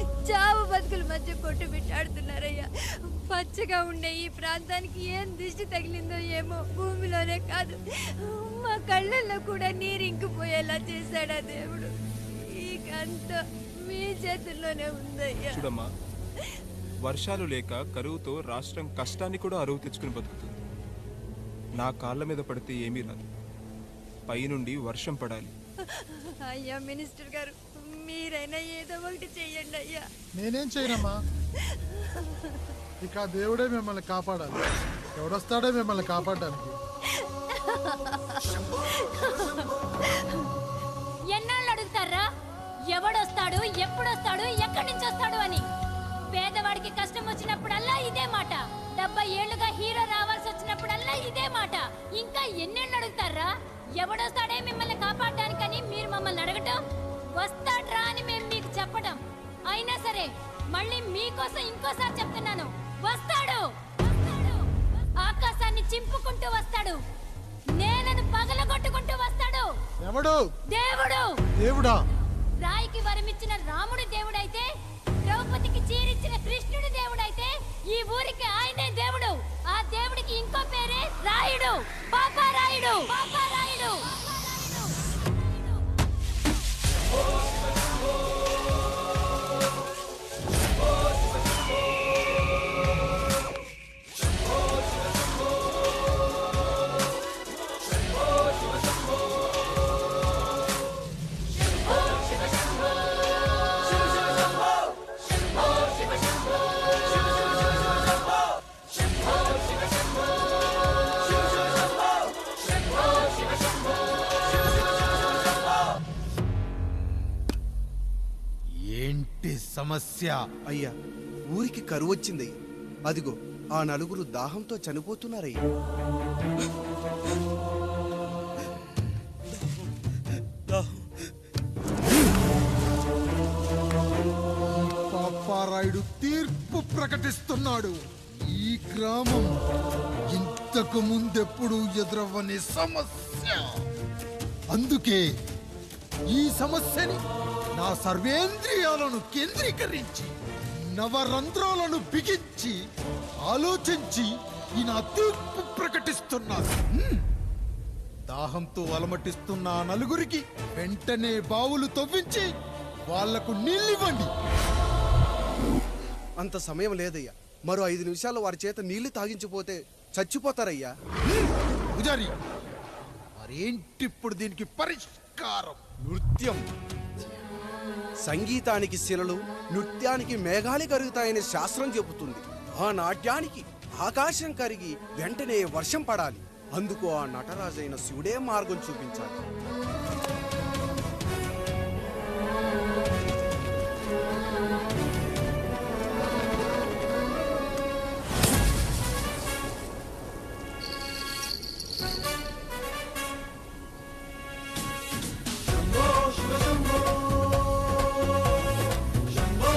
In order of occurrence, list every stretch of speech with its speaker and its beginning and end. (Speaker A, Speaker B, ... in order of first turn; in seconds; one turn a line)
Speaker A: 0.3-11.9
Speaker A: 12.6-15.7
Speaker B: 15.5-15.9
Speaker B: 17.0-20.5
Speaker B: 21.8-23.3
Speaker B: 24.3-25.5
Speaker A: 26.0-30.1
Speaker C: 30.4-31.2
Speaker C: 33.0-34.6
Speaker C: 35.2-36.8
Speaker A: 37.6-39.7
Speaker D: 41.3-42.3
Speaker D: 42.9-45.7
Speaker D: 46.3-56.8
Speaker D: 57.4-67.0
Speaker D: 67.8-69.7
Speaker C: 70.0-70.4
Speaker D: 70.7-71.3
Speaker C: 71.6-71.9
Speaker D: 72.6-74.7
Speaker D: 75.2-85.7
Speaker E: 118.9-120.4
Speaker F: 120.7-120.9
Speaker F: 121.5-122.5
Speaker F: 123.1-125.6
Speaker E: 134.7-139.5
Speaker E: 140.3-143.7
Speaker E: 144.7-145.2
Speaker E: 146.3-147.2
Speaker E: 147.8-152.8
Speaker E: 153.5-157.2
Speaker E: 158.3-162.5
Speaker E: 163.1-164.3
Speaker F: 166.4-170.9
Speaker E: 171.3-172.3
Speaker E: 173.4-175.8
Speaker F: 176.1-176.7
Speaker F: 178.2-189.4